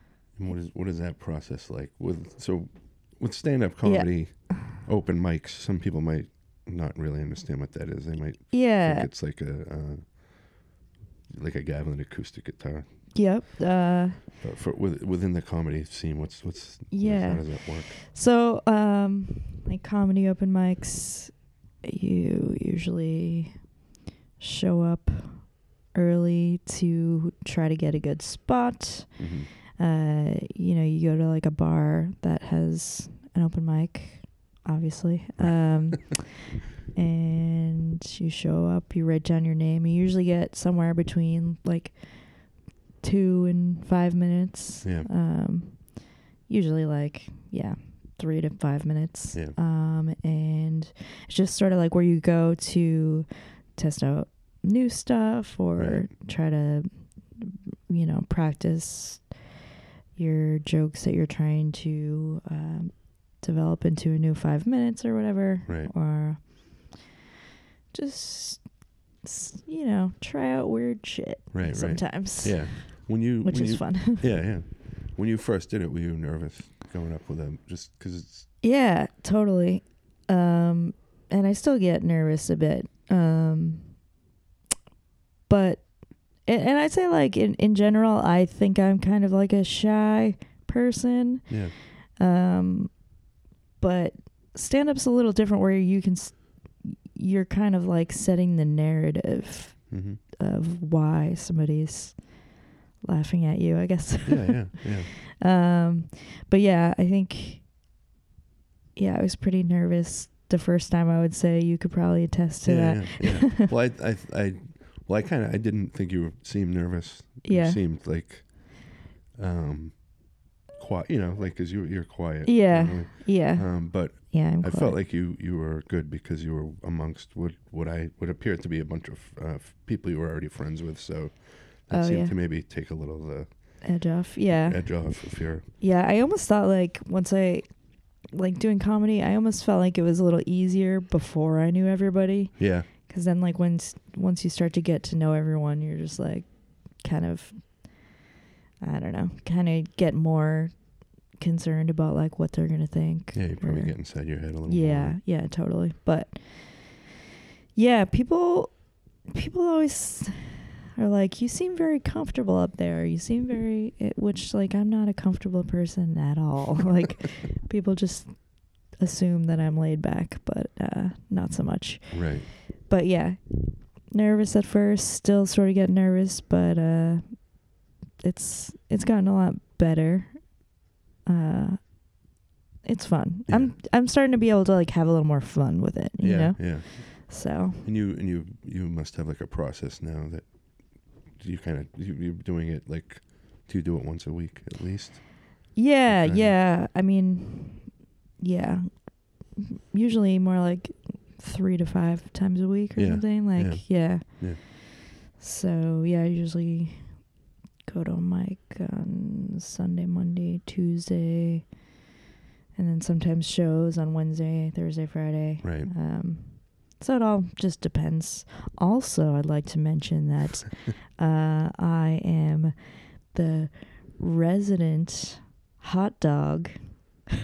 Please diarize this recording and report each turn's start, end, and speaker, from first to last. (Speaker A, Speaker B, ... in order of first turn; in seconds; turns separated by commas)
Speaker A: 0.3-10.2, Speaker B: 3.8-4.7, Speaker B: 8.5-9.1, Speaker A: 11.3-12.8, Speaker B: 13.1-14.2, Speaker A: 14.4-18.0, Speaker B: 16.9-23.7, Speaker B: 24.4-59.4, Speaker A: 29.2-29.5, Speaker A: 35.4-36.0, Speaker A: 44.8-45.1, Speaker A: 55.8-56.1, Speaker B: 60.1-67.0, Speaker A: 65.7-65.9, Speaker B: 67.9-74.3, Speaker A: 71.5-78.5, Speaker B: 78.6-84.0, Speaker B: 85.5-93.1, Speaker A: 91.5-91.7, Speaker B: 93.8-107.7, Speaker A: 99.9-100.2, Speaker A: 104.2-105.1, Speaker B: 109.0-113.7, Speaker A: 112.6-133.9, Speaker B: 117.4-117.8, Speaker B: 122.4-125.0, Speaker B: 131.9-132.3, Speaker B: 133.8-148.1, Speaker A: 134.6-135.7, Speaker A: 142.6-142.9, Speaker B: 148.8-157.1, Speaker A: 153.3-155.2, Speaker B: 157.7-177.7, Speaker A: 172.1-172.5, Speaker B: 178.2-180.7, Speaker B: 181.2-182.1, Speaker B: 182.8-187.8, Speaker A: 183.5-183.8, Speaker A: 186.2-196.6, Speaker B: 195.7-207.3, Speaker A: 202.9-204.6, Speaker B: 207.8-211.7, Speaker B: 212.7-227.0, Speaker A: 215.6-215.9